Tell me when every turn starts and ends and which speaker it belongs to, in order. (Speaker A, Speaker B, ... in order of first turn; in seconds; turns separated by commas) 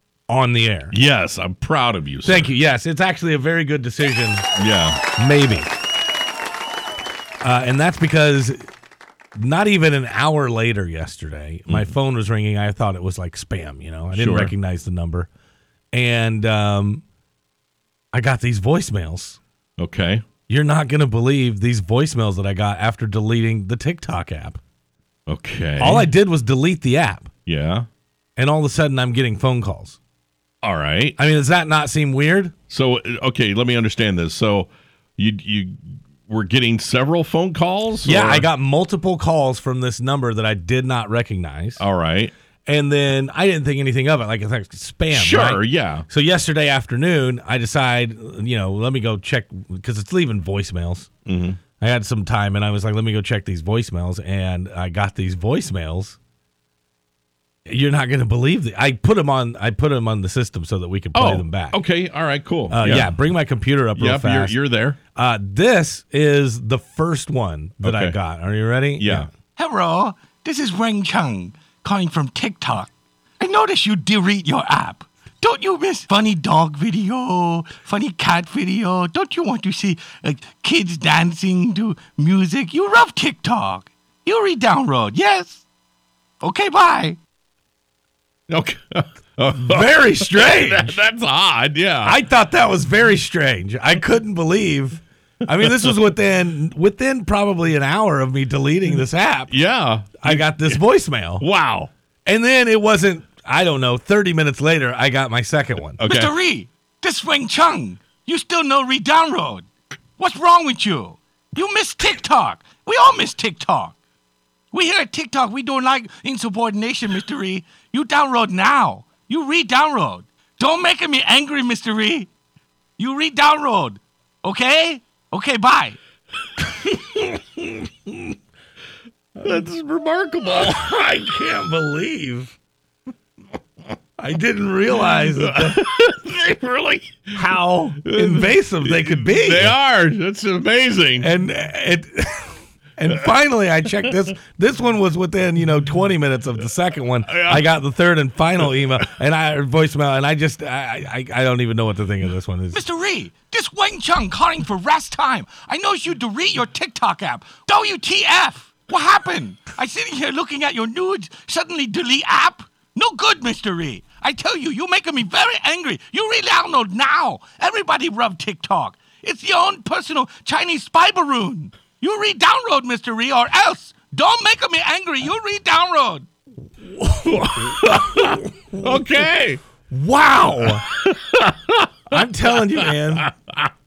Speaker A: 0.3-0.9, Speaker B: 0.9-2.5, Speaker A: 2.2-4.5, Speaker B: 4.5-5.0, Speaker A: 5.2-5.7, Speaker A: 7.4-8.7, Speaker A: 9.3-15.3, Speaker B: 11.7-11.9, Speaker B: 14.1-14.5, Speaker A: 15.9-17.0, Speaker A: 18.1-19.4, Speaker B: 19.8-20.2, Speaker A: 20.5-24.6, Speaker B: 25.3-26.1, Speaker A: 25.8-27.3, Speaker B: 27.4-27.9, Speaker A: 28.4-30.0, Speaker B: 30.6-31.2, Speaker A: 31.2-32.5, Speaker B: 32.7-38.5, Speaker A: 38.0-41.8, Speaker B: 41.8-42.3, Speaker A: 42.6-51.1, Speaker B: 45.1-46.0, Speaker B: 51.2-51.6, Speaker A: 51.8-56.2, Speaker A: 57.6-61.8, Speaker B: 61.1-63.1, Speaker A: 62.7-64.5, Speaker B: 64.0-65.0, Speaker A: 65.2-69.3, Speaker B: 67.8-68.2, Speaker B: 69.0-69.3, Speaker C: 69.6-85.6, Speaker C: 86.4-87.2, Speaker B: 88.5-92.2, Speaker A: 89.5-91.0, Speaker A: 92.0-99.5, Speaker B: 95.6-95.9, Speaker B: 99.5-100.8, Speaker A: 100.2-101.4, Speaker B: 101.4-101.9, Speaker A: 102.2-106.0, Speaker B: 106.0-106.3, Speaker C: 106.0-109.7, Speaker C: 110.2-113.9, Speaker C: 114.7-122.3, Speaker C: 123.0-126.0, Speaker B: 129.4-130.9, Speaker A: 130.6-132.5, Speaker A: 134.2-135.9, Speaker B: 135.4-137.3, Speaker A: 137.3-139.8, Speaker B: 138.0-141.3, Speaker A: 141.2-152.8, Speaker B: 147.3-147.6, Speaker C: 152.7-176.3, Speaker A: 177.0-178.4, Speaker B: 177.2-179.6, Speaker A: 179.9-180.8, Speaker B: 180.9-182.2, Speaker A: 182.1-183.2, Speaker B: 182.7-183.7